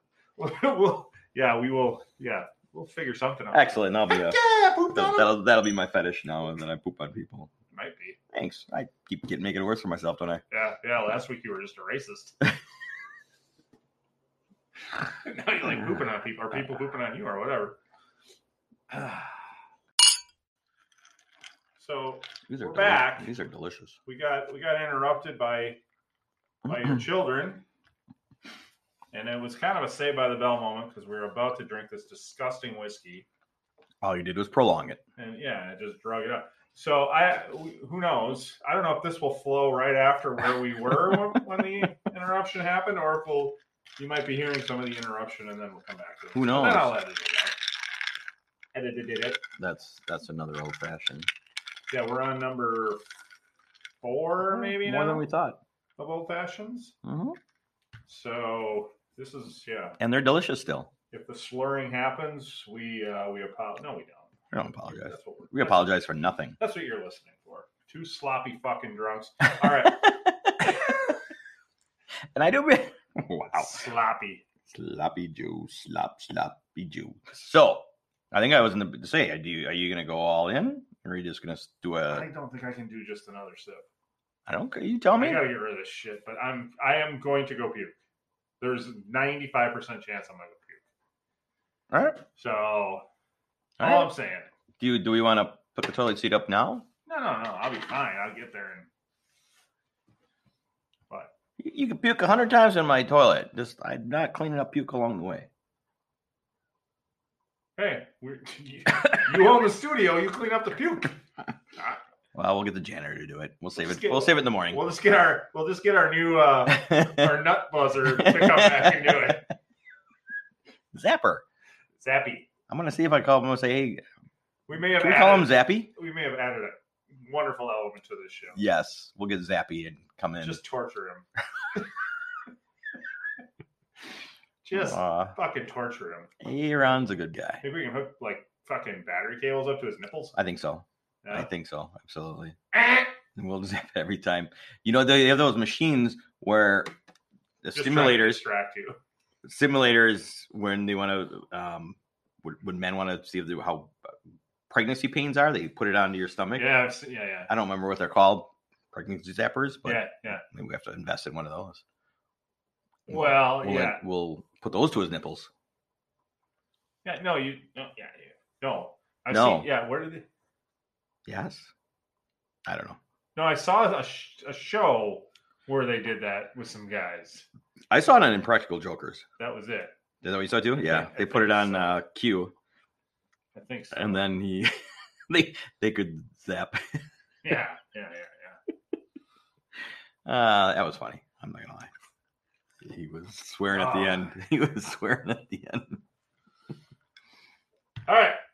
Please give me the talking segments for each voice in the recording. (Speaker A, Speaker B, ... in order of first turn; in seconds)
Speaker A: 0.4-5.3, 7.7-8.2, 10.5-12.4, 15.2-17.8, 18.9-19.3, 21.8-23.3, 24.1-25.8, 26.6-27.6, 29.1-33.2, 35.2-47.6, 48.7-49.4, 51.9-53.0, 54.0-55.3, 56.0-56.9, 58.1-60.0, 61.1-64.3, 64.8-65.9, 66.6-70.1, 73.5-74.4, 82.1-83.8, 85.1-87.9, 88.6-90.8, 92.4-93.0, 93.8-94.5, 97.0-98.9, 107.8-111.2, 113.8-119.5, 122.0-122.5, 124.7-128.6, 130.4-131.2, 134.6-136.3, 137.6-140.3, 141.2-141.5, 142.7-143.1, 147.7-149.0, 156.5-157.5, 159.8-160.4, 163.1-164.0, 167.0-170.2, 173.3-177.4, 179.4-179.9, 180.8-182.0, 183.5-184.2, 187.4-188.6, 193.7-194.3, 198.1-198.4
Speaker B: 3.5-4.4, 4.9-7.5, 8.3-10.4, 22.5-23.9, 26.7-26.9, 34.0-35.0, 46.3-46.9, 49.6-51.3, 54.4-55.6, 57.0-57.4, 60.0-60.9, 64.5-66.6, 69.8-70.9, 72.3-73.8, 74.7-82.3, 84.5-85.5, 91.9-92.2, 93.8-94.1, 94.8-96.9, 101.6-105.5, 112.3-114.8, 116.7-117.4, 118.1-119.4, 120.9-121.4, 122.7-124.0, 124.7-125.9, 128.5-130.6, 134.7-135.3, 136.4-137.6, 140.3-142.6, 143.3-146.9, 147.6-148.4, 149.4-154.1, 154.7-156.8, 157.5-161.8, 163.1-165.5, 169.3-169.7, 171.2-171.7, 172.7-173.0, 177.9-179.2, 180.2-182.5, 183.9-184.7, 185.3-187.0, 190.2-191.9, 192.8-196.0